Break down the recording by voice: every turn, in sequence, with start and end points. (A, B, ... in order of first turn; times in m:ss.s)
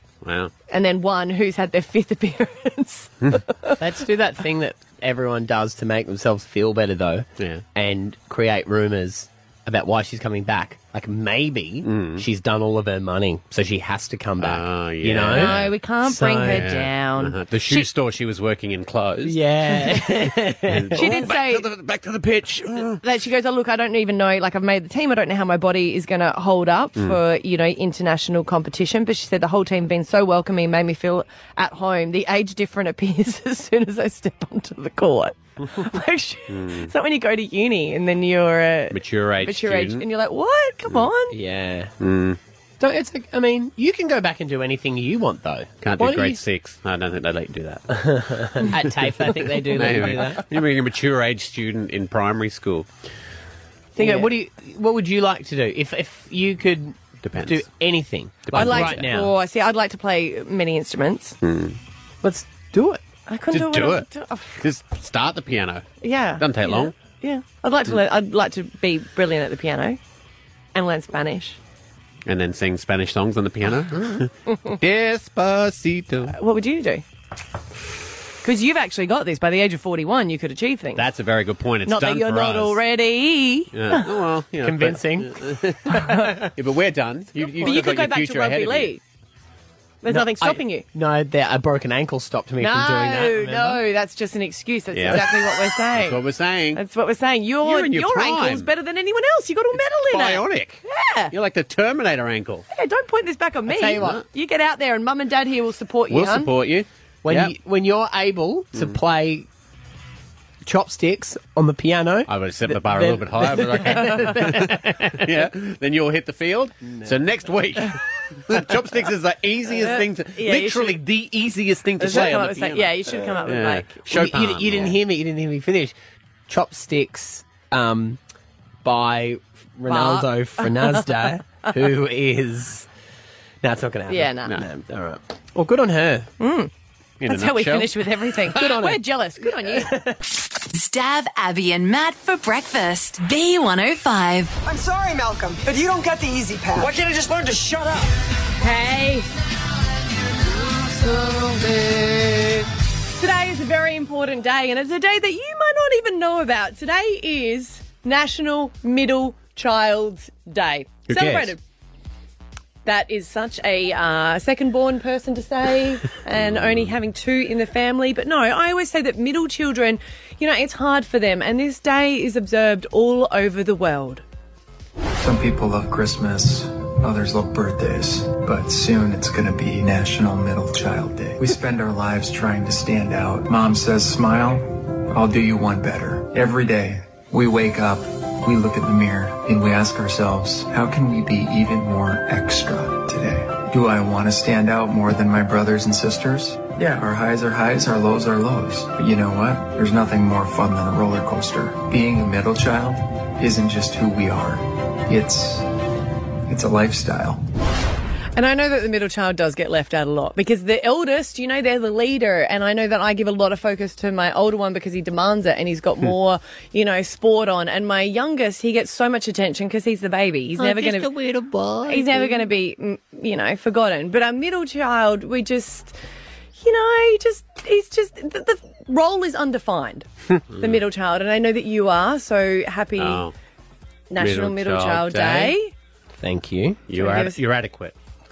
0:00.2-0:00.5 A
0:00.7-0:03.8 B
0:03.8-0:16.8 C
0:07.4-0:07.6 A
0:11.8-0:12.2 A
0:14.4-0:15.8 A
0:15.3-0:17.9 B
0:16.5-0:19.4 A
0:19.2-0:21.3 C
0:20.7-0:23.0 A
0:21.0-0:21.7 B
0:23.0-0:41.4 B
0:36.5-0:36.9 A
0:38.9-0:40.0 A
0:41.3-0:42.0 C
0:42.0-0:42.4 A
0:42.8-0:46.4 C
0:45.8-0:47.8 A
0:47.9-0:50.5 C
0:48.5-0:52.9 A
0:54.0-0:59.3 C
0:54.0-0:54.3 B
0:57.2-0:57.7 A
0:58.5-0:59.1 A
0:58.5-1:01.4 B
1:01.4-1:01.8 A
1:02.2-1:03.0 C
1:03.3-1:04.6 B
1:03.5-1:04.1 A
1:04.6-1:05.9 A
1:06.0-1:10.0 B
1:06.4-1:06.9 A
1:10.8-1:11.6 B
1:12.3-1:16.3 A
1:16.3-1:17.0 B
1:18.4-1:21.1 B
1:21.0-1:22.8 A
1:21.9-1:24.1 B
1:23.7-1:29.0 A
1:24.6-1:25.4 C
1:25.9-1:26.3 B
1:27.6-1:29.0 B
1:30.0-1:30.8 B
1:30.1-1:33.8 C
1:32.6-1:36.2 B
1:34.9-1:36.8 A
1:36.7-1:41.3 B
1:37.6-1:38.7 A
1:39.8-1:42.7 A
1:42.7-1:46.5 B
1:43.7-1:44.2 C
1:44.0-1:44.2 A
1:46.1-1:47.6 A
1:47.2-1:49.5 C
1:48.8-1:49.0 A
1:50.6-1:55.3 C
1:52.3-2:05.0 A
1:56.8-1:57.2 C
1:59.8-2:01.0 B
2:01.1-2:02.5 C
2:02.0-2:04.1 B
2:04.1-2:06.0 C
2:06.5-2:08.2 C
2:08.8-2:12.9 C
2:09.9-2:11.0 B
2:13.6-2:16.3 C
2:14.1-2:14.6 B
2:16.4-2:16.7 B
2:17.2-2:18.1 A
2:17.3-2:19.9 B
2:18.6-2:19.0 C
2:19.7-2:20.2 C
2:20.7-2:24.6 D
2:24.6-2:28.1 E
2:28.6-2:29.3 B
2:33.2-2:41.6 B
2:41.1-2:41.6 A
2:42.8-2:54.2 B
2:46.4-2:46.9 A
2:55.2-3:25.7 F
3:26.5-3:27.4 F
3:28.4-3:41.1 B
3:40.6-3:42.5 C
3:41.9-3:46.0 B
3:46.6-3:53.3 B
3:50.5-3:50.8 A
3:53.0-3:53.3 A
3:54.1-3:55.7 B
3:54.2-3:55.6 A
3:56.2-3:56.9 C
3:56.9-3:57.9 A
3:56.9-3:57.4 B